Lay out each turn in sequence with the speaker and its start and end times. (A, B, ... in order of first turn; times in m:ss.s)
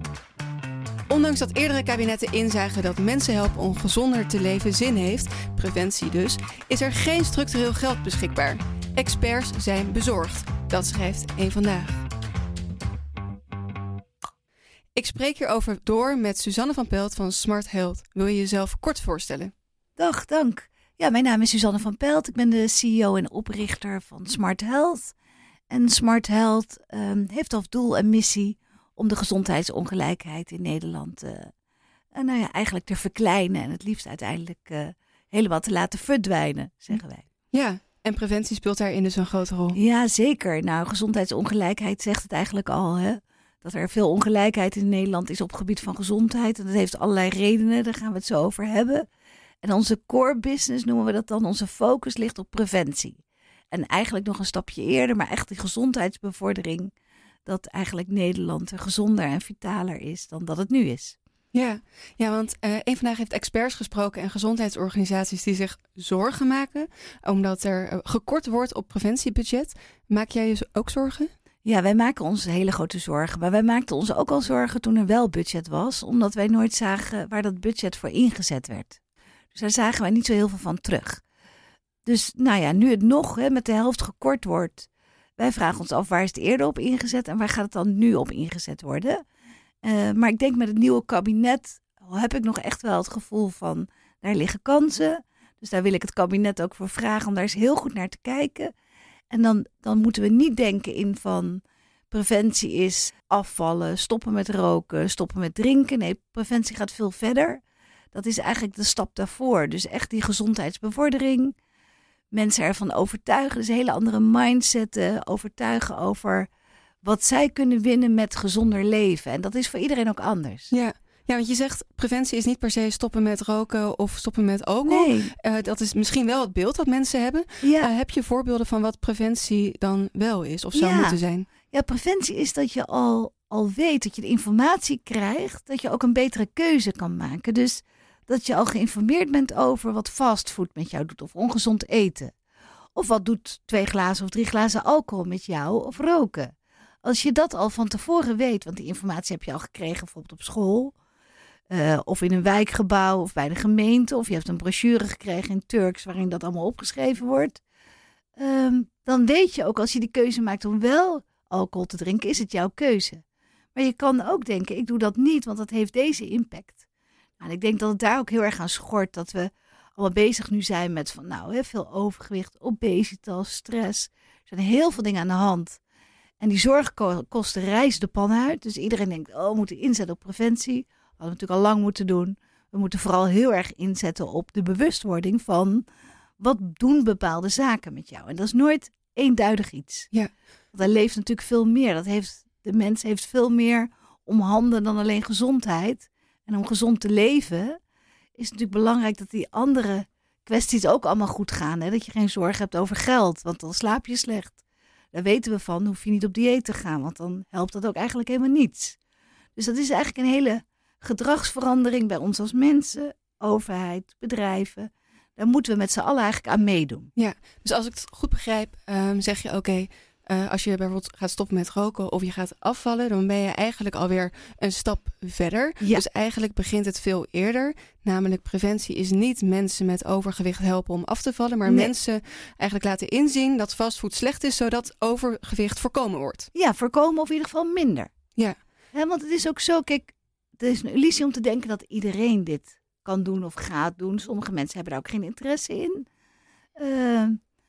0:01.1-0:12.0 A
0:15.0-0:19.5 A
0:20.0-0:25.1 B
0:25.7-0:31.5 B
0:32.1-0:37.3 B
0:37.5-0:39.8 A
0:39.7-0:49.1 B
0:49.6-0:53.2 B
0:53.7-0:56.9 B
0:57.5-1:01.2 B
1:01.5-1:11.3 A
1:11.6-1:19.0 B
1:19.5-1:21.2 B
1:22.0-1:29.2 B
1:29.8-1:38.7 B
1:39.3-1:51.6 B
1:52.3-1:56.5 B
1:57.0-2:00.7 B
2:00.7-2:11.5 A
2:04.8-2:05.3 B
2:07.6-2:07.9 B
2:10.7-2:22.4 B
2:23.0-2:30.9 B
2:31.7-2:37.6 B
2:38.4-2:46.8 B
2:47.4-2:55.8 B
2:56.4-3:05.8 B
3:06.4-3:10.1 B
3:10.7-3:17.8 B
3:18.4-3:24.6 B
3:25.1-3:29.0 B
3:29.6-3:37.1 B
3:37.2-3:56.5 A
3:51.7-3:51.9 B
3:56.5-3:58.1 B
3:58.9-4:06.0 B
4:06.8-4:07.4 B